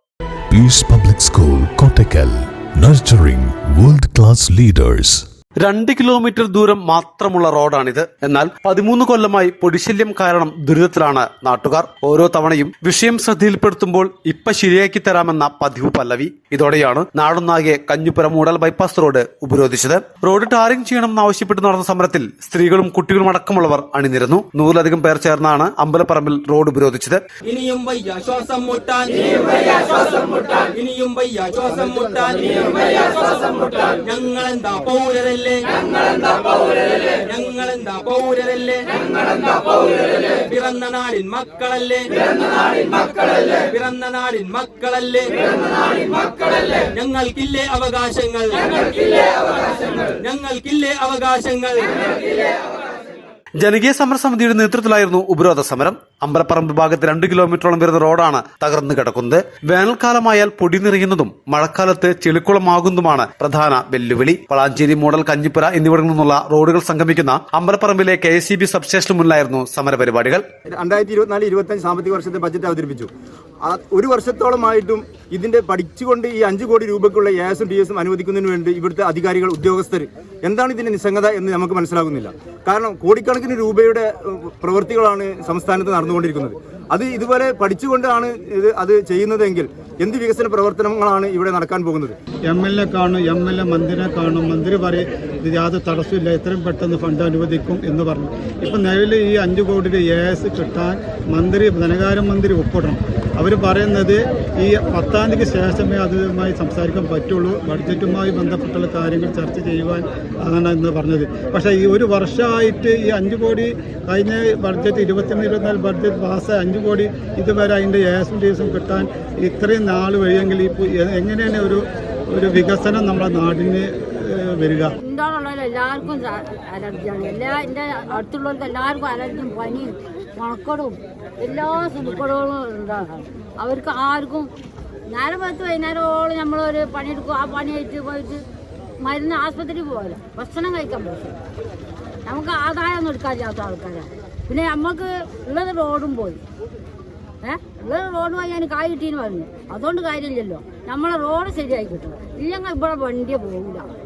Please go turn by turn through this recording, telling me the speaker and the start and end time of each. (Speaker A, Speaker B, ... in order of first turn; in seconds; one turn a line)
Speaker A: 0.5-5.2
Speaker B: 5.6-27.2
Speaker C: 27.4-49.3
Speaker C: 50.2-51.9
Speaker B: 53.6-70.4
Speaker D: 70.7-73.1
Speaker D: 73.6-92.2
Speaker E: 92.5-121.8
Speaker E: 122.3-125.0
Speaker F: 125.0-134.5
Speaker F: 135.1-138.4
Speaker F: 139.0-141.4
Speaker F: 142.2-146.4
Speaker F: 147.4-153.9